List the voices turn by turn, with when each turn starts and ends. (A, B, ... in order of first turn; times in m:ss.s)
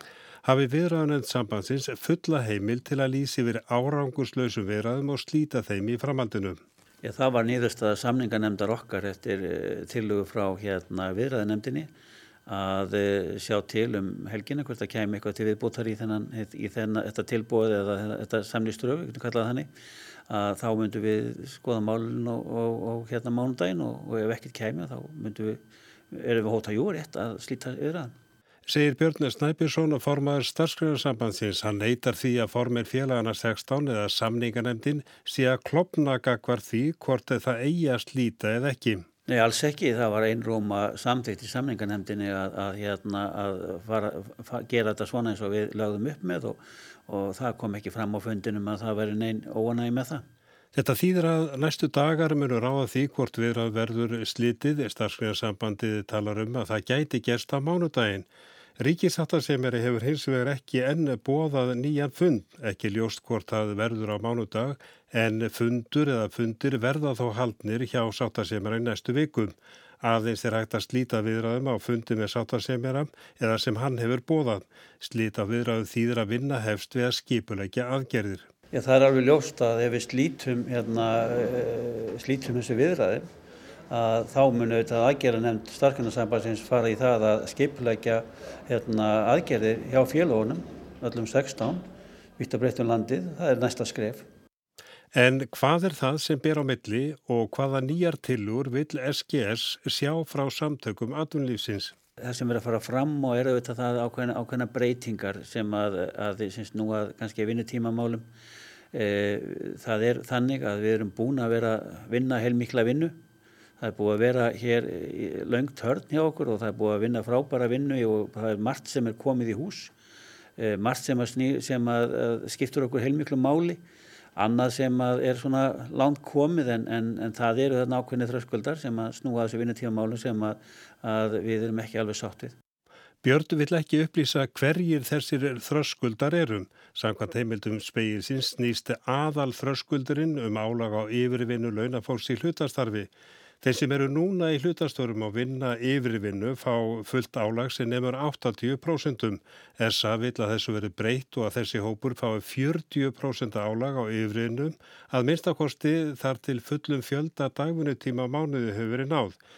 0:00.4-0:06.6 A
0:07.0-0:11.9 B
0:12.5-0:19.7 B
0:20.3-0:25.6 B
0:26.1-0:28.2 B
0:28.7-0:39.1 A
0:39.3-0:50.2 B
0:50.7-0:58.3 A
0:58.8-1:18.5 A
1:18.7-1:23.3 B
1:23.9-1:31.8 B
1:32.4-1:34.3 B
1:35.1-1:42.0 A
1:42.2-1:48.3 B
1:48.9-1:53.2 B
1:53.8-1:59.9 B
2:00.6-2:03.8 B
2:04.4-2:12.6 B
2:13.2-2:23.1 A
2:23.6-2:39.4 A